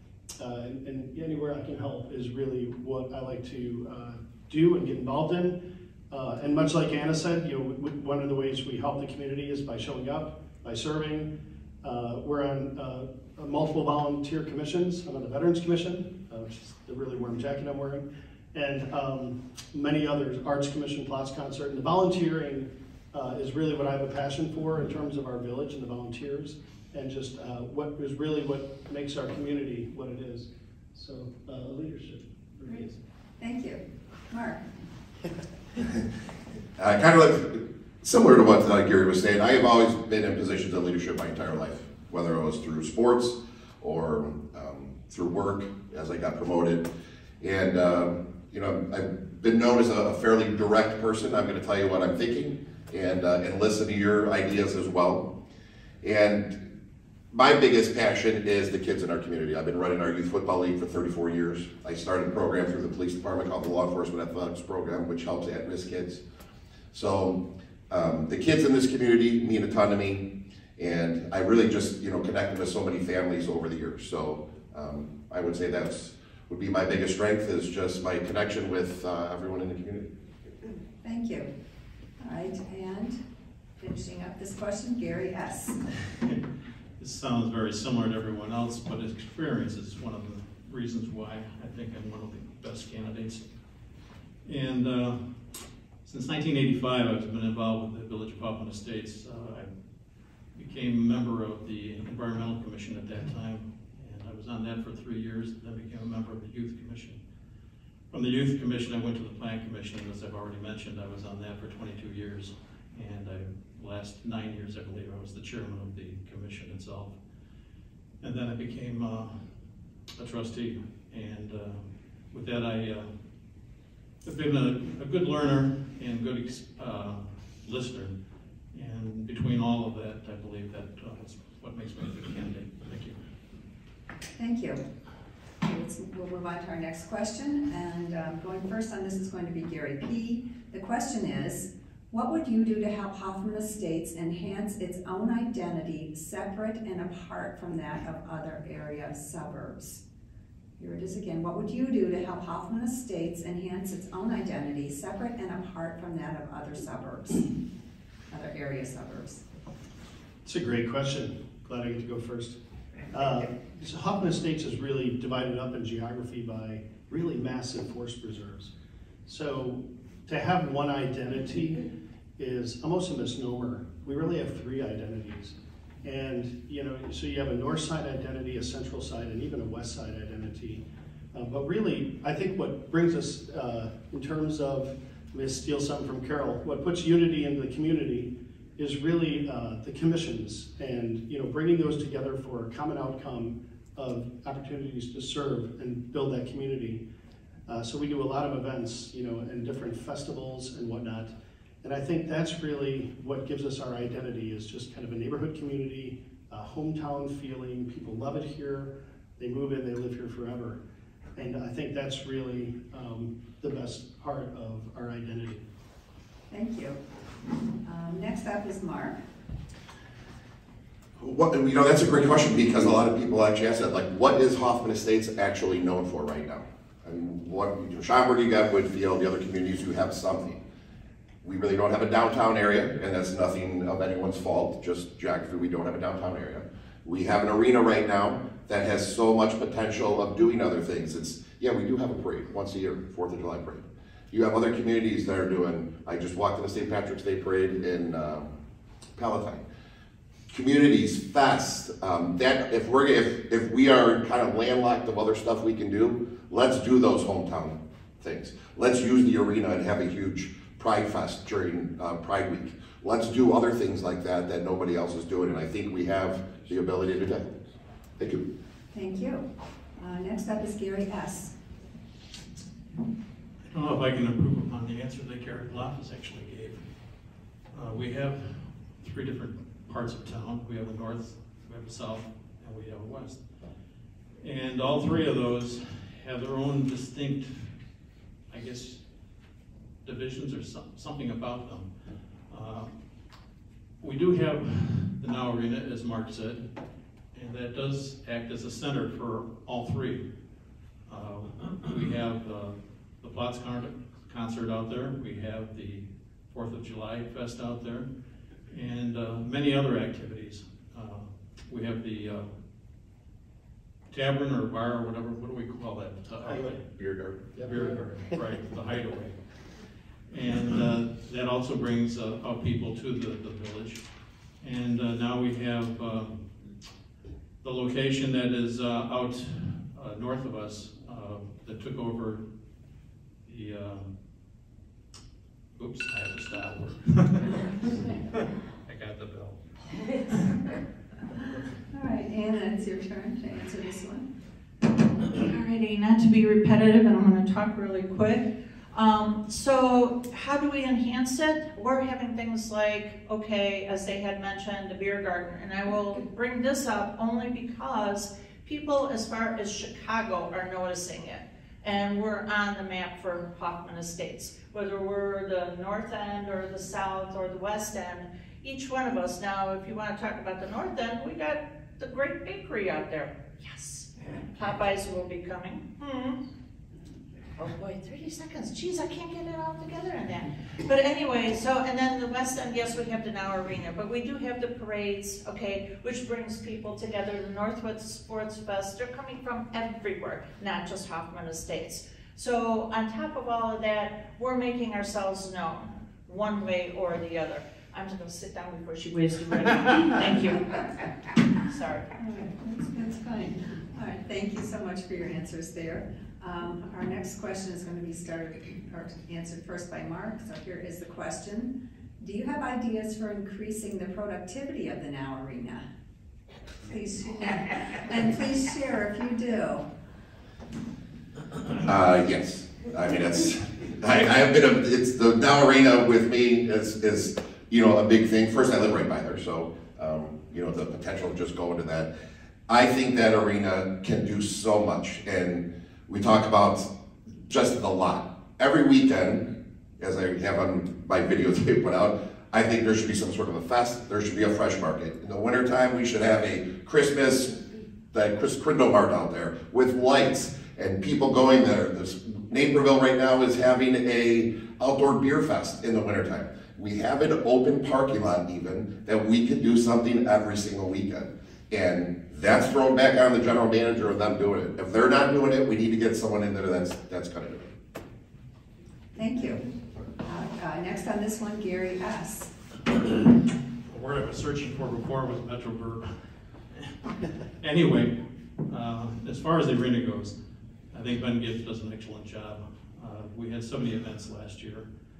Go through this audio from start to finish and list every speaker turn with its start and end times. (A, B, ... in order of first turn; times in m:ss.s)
0:00.4-0:05.6 A
0:06.1-0:11.3 A
0:11.8-0:33.0 A
0:33.4-0:34.6 B
0:36.8-0:46.9 C
0:47.4-0:55.3 C
0:56.0-0:56.6 C
0:57.3-1:06.2 C
1:06.9-1:20.1 C
1:21.0-1:21.5 B
1:22.2-1:23.2 B
1:23.8-1:25.8 B
1:27.0-1:33.5 D
1:34.4-1:39.7 D
1:40.5-1:47.2 D
1:48.1-1:57.2 D
1:58.2-1:59.5 D
2:00.2-2:03.1 D
2:04.2-2:08.1 D
2:08.7-2:13.2 D
2:14.4-2:14.8 B
2:15.6-2:30.0 B
2:30.8-2:37.5 B
2:38.3-2:39.4 B
2:40.4-2:42.6 A
2:43.1-2:48.7 A
2:49.3-3:00.8 A
3:01.3-3:17.0 A
3:17.7-3:30.8 A
3:31.4-3:35.6 A
3:36.5-3:37.0 B
3:37.8-3:39.2 B
3:41.2-3:50.6 C
3:51.4-4:08.5 C
4:09.2-4:09.6 C
4:10.5-4:27.6 C
4:28.2-4:28.4 C
4:28.9-4:29.4 B
4:30.0-4:31.5 B
4:33.7-4:36.9 D
4:37.7-4:43.6 D
4:44.4-4:47.7 D
4:48.5-4:49.0 D
4:50.0-4:53.2 D
4:54.0-4:56.7 D
4:57.3-5:00.2 D
5:01.1-5:08.1 D
5:08.7-5:12.5 D
5:14.1-5:16.9 D
5:16.5-5:16.8 A
5:17.0-5:17.4 C
5:17.5-5:18.0 A
5:17.6-5:24.1 D
5:24.6-5:26.4 D
5:27.6-5:32.4 D
5:33.4-5:34.1 D
5:35.8-5:37.7 D
5:38.0-5:38.4 B
5:38.9-5:39.7 D
5:41.9-5:44.3 B
5:45.4-6:16.4 E
6:17.6-6:40.8 E
6:41.6-6:42.1 E
6:42.2-6:55.8 B
6:56.9-6:59.8 B
7:01.8-7:12.1 C
7:12.7-7:16.9 C
7:17.5-7:27.6 C
7:28.1-7:47.7 C
7:49.2-7:49.7 B
7:50.2-7:52.5 B
7:53.9-7:56.2 D
7:57.6-8:00.4 D
8:00.9-8:04.9 D